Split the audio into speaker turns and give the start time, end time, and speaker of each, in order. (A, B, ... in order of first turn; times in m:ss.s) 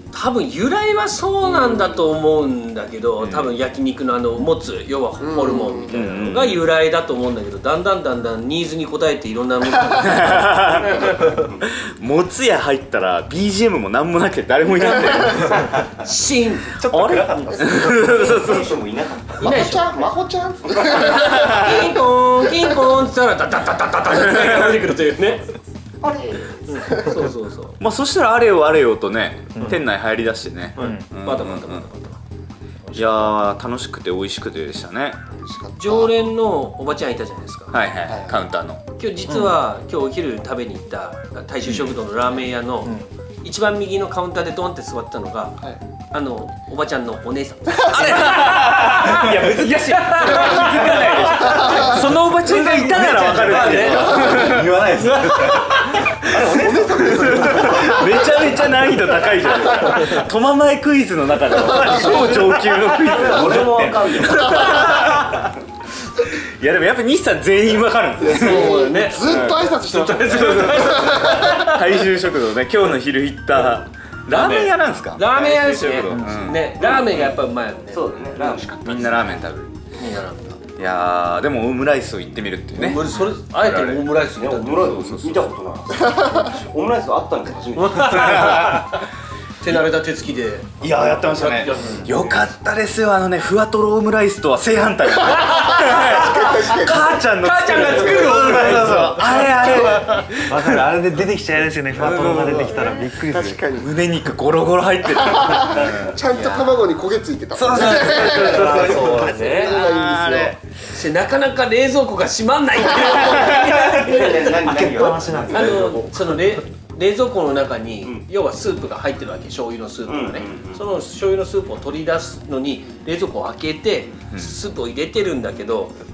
0:00.1-0:11.1 A
0:03.2-0:03.6 B
0:05.2-0:06.1 C
0:05.9-0:06.7 B
0:10.0-0:15.9 B
0:11.1-0:11.6 D
0:14.8-0:16.8 A
0:16.8-0:18.0 E
0:16.8-0:18.7 B
0:17.9-0:19.6 D
0:19.4-0:20.1 A
0:19.4-0:21.8 C
0:20.7-0:21.0 D
0:20.8-0:25.5 A
0:21.1-0:22.0 B
0:24.3-0:24.7 B
0:26.0-0:26.6 D
0:26.4-0:27.2 C
0:26.7-0:27.8 A
0:27.8-0:31.9 B
0:29.6-0:29.8 E
0:30.8-0:32.2 A
0:30.8-0:31.1 E
0:32.8-0:33.3 A
0:33.0-0:35.2 B
0:35.3-0:36.1 C
0:35.8-0:37.8 A
0:37.7-0:38.8 B
0:38.1-0:38.4 C
0:39.0-0:52.0 A
0:39.3-0:39.6 E
0:41.6-0:42.0 B
0:47.8-0:54.8 B
0:52.4-0:58.3 E
0:53.0-0:56.0 A
0:56.2-1:05.5 B
0:56.4-0:58.4 C
1:01.7-1:02.6 A
1:01.7-1:02.2 C
1:03.1-1:05.1 D
1:06.2-1:09.6 B
1:08.2-1:11.7 C
1:08.3-1:11.8 A
1:10.4-1:17.2 B
1:14.3-1:18.6 A
1:16.0-1:16.6 E
1:17.9-1:19.4 D
1:18.8-1:19.8 B
1:20.0-1:20.6 A
1:20.8-1:24.1 B
1:22.8-1:25.0 A
1:24.4-1:28.4 D
1:24.8-1:25.5 B
1:27.8-1:29.0 A
1:28.0-1:29.0 B
1:29.6-1:32.1 A
1:30.8-1:40.8 B
1:32.0-1:32.4 D
1:35.2-1:40.3 A
1:35.8-1:37.2 C
1:40.3-1:43.7 E
1:42.0-1:42.8 B
1:43.2-1:44.0 C
1:43.8-1:46.2 B
1:45.3-1:50.6 C
1:46.3-1:46.8 A
1:47.6-1:50.6 B
1:47.8-1:49.7 A
1:48.8-1:49.6 E
1:50.9-1:54.6 A
1:53.1-1:55.8 D
1:53.3-1:53.8 B
1:54.6-1:56.4 E
1:55.5-2:05.9 A
1:55.6-1:55.9 B
2:00.1-2:00.8 D
2:04.3-2:04.6 B